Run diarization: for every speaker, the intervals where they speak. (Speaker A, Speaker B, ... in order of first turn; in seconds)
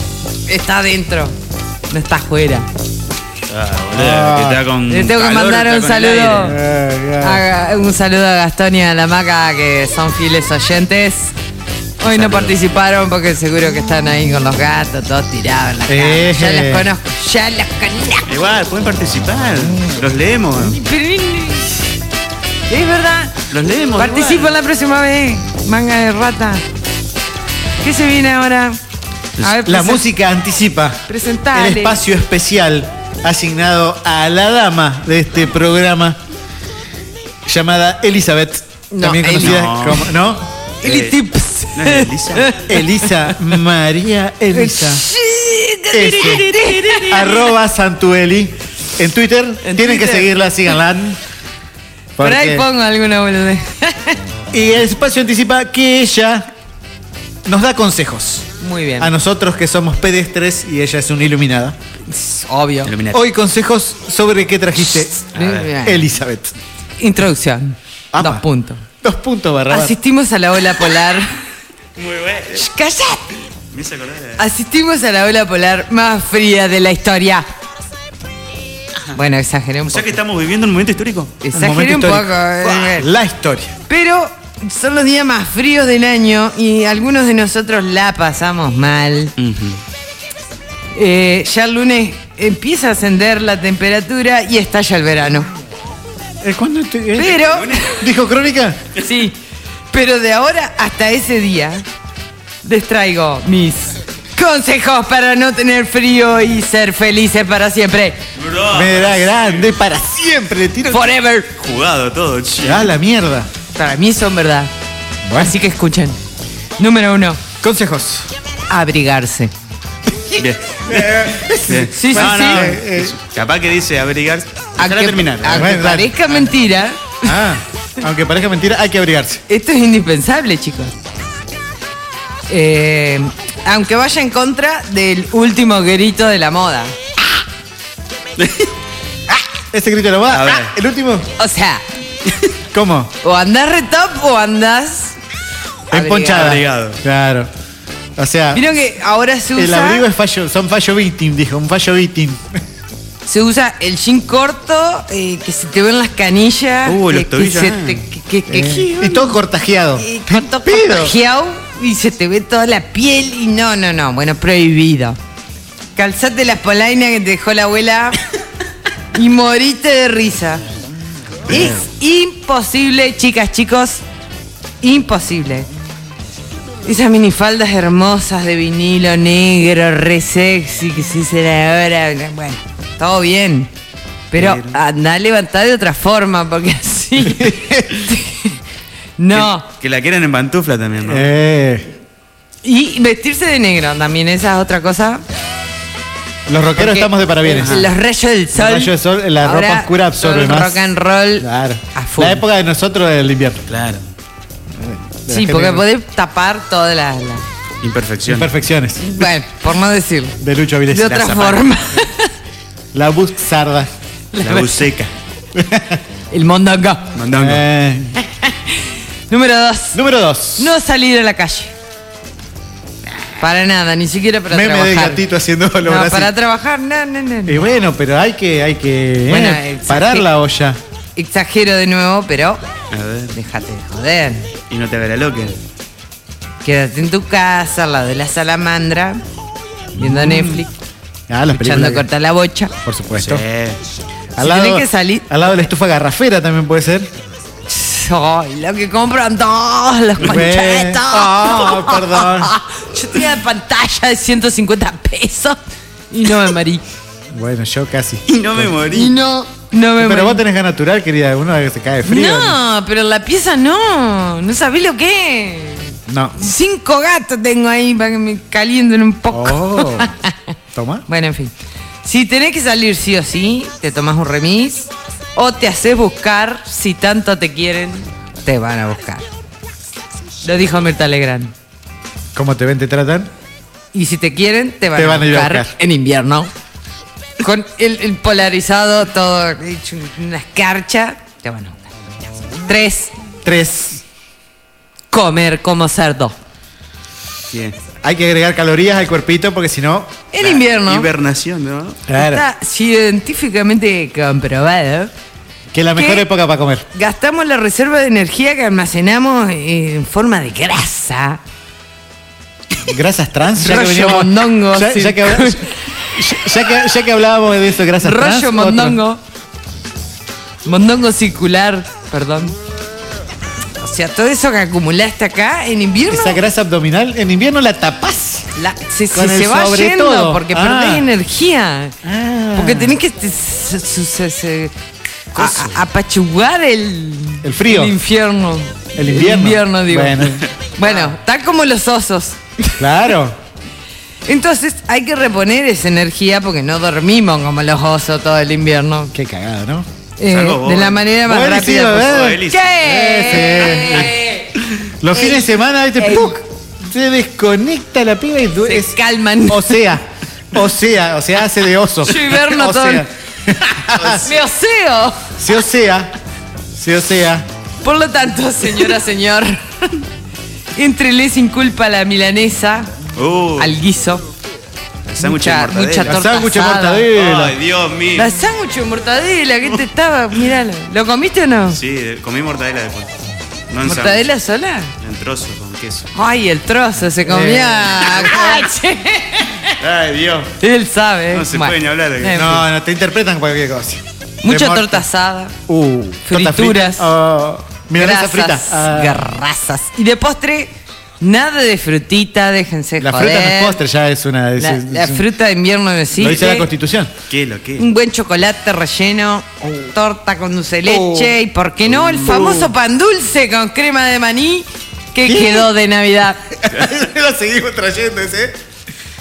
Speaker A: 0.5-1.4, 1.9-2.7, 4.9-6.6, 7.2-11.3, 12.0-18.3, 20.6-21.9, 22.7-23.4, 24.0-26.6, 27.8-28.8, 29.4-30.1, 31.1-32.0, 38.9-39.7, 40.8-43.0, 44.5-47.5, 49.6-50.4, 52.2-54.2, 58.6-59.1, 62.1-62.9, 65.2-66.1, 67.0-68.8, 69.7-71.3, 72.5-73.3, 74.4-77.5, 79.2-80.2, 81.4-83.1, 83.9-89.3, 91.0-95.5, 97.2-97.9, 99.0-99.4, 99.9-101.8, 102.6-108.2, 110.9-111.5, 113.8-114.7, 115.3-116.2, 116.8-117.4, 118.7-119.5, 121.9-122.7, 124.8-127.3, 129.5-130.9, 132.5-137.0, 141.4-141.8, 143.2-145.2, 145.9-146.6, 148.5-150.1, 153.3-159.3, 160.0-165.2, 166.0-168.2, 169.1-170.6, 171.5-174.0, 174.8-175.7, 176.8-183.7, 184.3-188.6, 189.2-189.7, 192.6-195.2, 196.8-202.4, 205.3-207.4, 209.0-210.4, 210.9-212.3, 214.3-214.9, 216.3-217.1, 218.4-220.0, 220.6-221.7, 223.4-225.2, 225.8-227.6, 229.3-230.3, 231.2-232.6, 233.3-234.5, 236.6-239.2, 240.0-240.7, 241.5-242.7, 244.4-245.3, 247.7-255.6, 256.1-256.8, 258.9-260.4, 262.1-270.4, 271.1-271.5, 272.0-279.3, 280.4-281.5, 283.9-286.5, 287.4-291.9, 292.7-293.1, 295.1-296.4, 300.3-301.1, 302.1-305.1, 306.0-306.3, 306.9-311.4, 313.6-316.5, 318.0-319.2, 320.6-322.6, 323.8-326.4, 328.6-332.0, 332.5-334.7, 335.3-342.8, 344.3-349.1, 350.2-354.5, 355.1-356.4, 358.6-359.9, 362.0-363.1, 364.2-365.2, 367.8-369.9, 370.7-372.9, 373.6-374.2, 375.2-377.1, 378.1-381.8, 383.8-384.9, 386.1-389.8, 390.6-392.6, 394.4-395.6, 396.2-397.1, 398.0-403.8, 404.6-406.7, 407.8-416.4
Speaker B: 3.5-6.6, 12.0-12.6, 18.3-20.8, 23.5-24.5, 39.4-40.1, 40.8-41.2, 41.7-42.6, 62.9-63.2, 65.3-65.7, 72.0-72.7, 73.7-74.4, 79.9-81.4, 89.4-89.8, 97.5-98.0, 108.4-109.7, 111.6-112.9, 120.3-125.7, 138.4-138.7, 140.3-140.7, 146.3-147.0, 156.8-158.1, 184.3-184.8, 189.3-191.3, 197.6-197.9, 203.7-204.1, 207.8-208.5, 211.1-211.7, 214.4-215.1, 217.2-217.6, 232.9-233.3, 234.7-235.6, 243.1-243.8, 258.3-259.2, 297.5-297.8, 300.4-302.0, 340.8-341.1, 350.3-351.1, 351.6-352.8, 373.2-373.8, 375.1-376.2, 377.1-378.3, 381.7-383.2, 383.7-384.3, 385.0-386.1, 389.8-390.5, 391.3-392.4, 407.3-407.9
Speaker C: 3.9-4.6, 6.4-7.4, 15.9-16.9, 29.6-36.2, 37.5-40.5, 42.7-45.0, 45.9-51.2, 52.2-52.7, 54.5-56.5, 57.5-61.8, 63.1-65.2, 65.8-66.5, 68.1-68.5, 69.0-70.0, 81.5-83.8, 96.4-98.8, 108.7-111.1, 112.6-113.5, 115.2-115.5, 117.6-118.3, 120.9-123.2, 125.5-126.1, 127.2-129.4, 139.7-141.3, 142.7-143.1, 145.9-147.5, 148.2-148.6, 149.6-152.6, 158.5-161.1, 187.2-187.9, 191.1-191.9, 196.5-197.9, 198.5-203.6, 204.8-205.9, 208.3-209.3, 210.4-211.3, 212.9-213.9, 215.5-216.0, 217.3-218.2, 219.9-220.7, 224.5-226.3, 227.5-230.8, 240.0-240.6, 241.3-242.1, 242.8-243.4, 244.4-247.1, 250.2-252.5, 257.3-258.7, 260.0-262.6, 266.1-266.5, 269.3-270.1, 270.8-271.1, 282.4-283.3, 284.9-285.7, 293.4-294.0, 298.0-300.2, 302.1-302.4, 305.7-306.9, 312.9-319.0, 326.1-328.5, 329.1-331.1, 332.0-333.0, 335.4-335.6, 337.4-338.0, 339.0-340.5, 342.8-343.4, 349.1-349.9, 351.3-354.1, 355.0-364.3, 365.4-366.1, 366.7-367.5, 376.0-377.6, 387.2-388.7, 392.3-395.1, 395.7-399.2, 403.0-405.2, 406.2-407.1, 410.9-411.4, 412.0-412.7, 415.2-415.7, 416.6-418.6